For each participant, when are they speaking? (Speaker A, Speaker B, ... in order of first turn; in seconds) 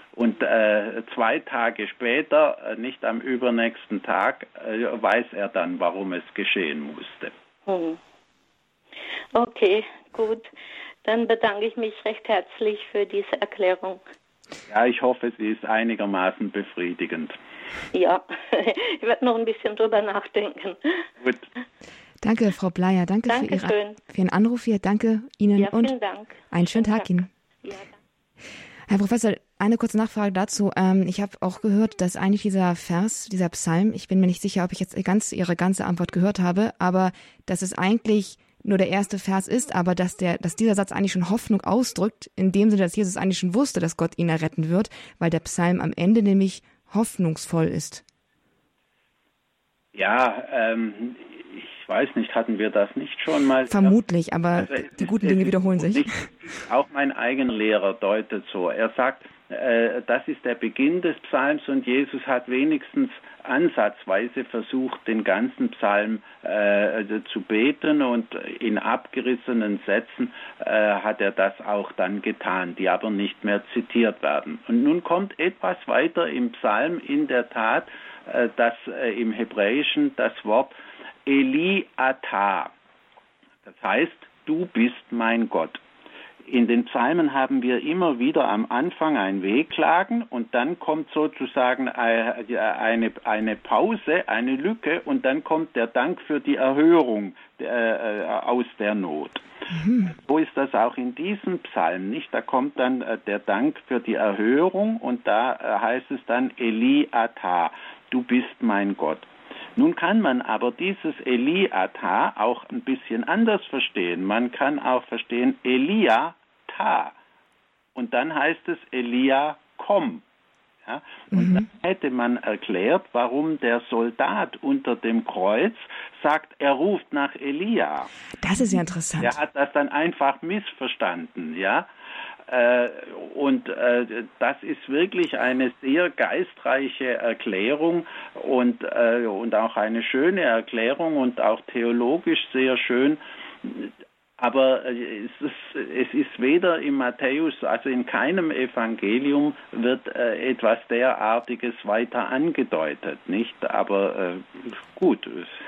Speaker A: 0.2-7.3, 14.7-17.4, 49.9-54.0, 54.6-80.7, 81.3-82.7, 83.7-85.8, 86.5-99.4, 100.0-117.1, 118.0-120.2, 120.8-128.1, 129.2-131.9, 132.5-155.6
Speaker B: 7.7-8.0, 9.3-10.5, 11.0-14.0, 17.9-21.1, 23.3-24.0, 25.6-27.1, 27.6-28.0
Speaker C: 22.2-25.9, 26.5-27.3, 28.9-48.0, 53.7-56.1, 99.7-100.1, 121.3-121.6, 128.4-129.4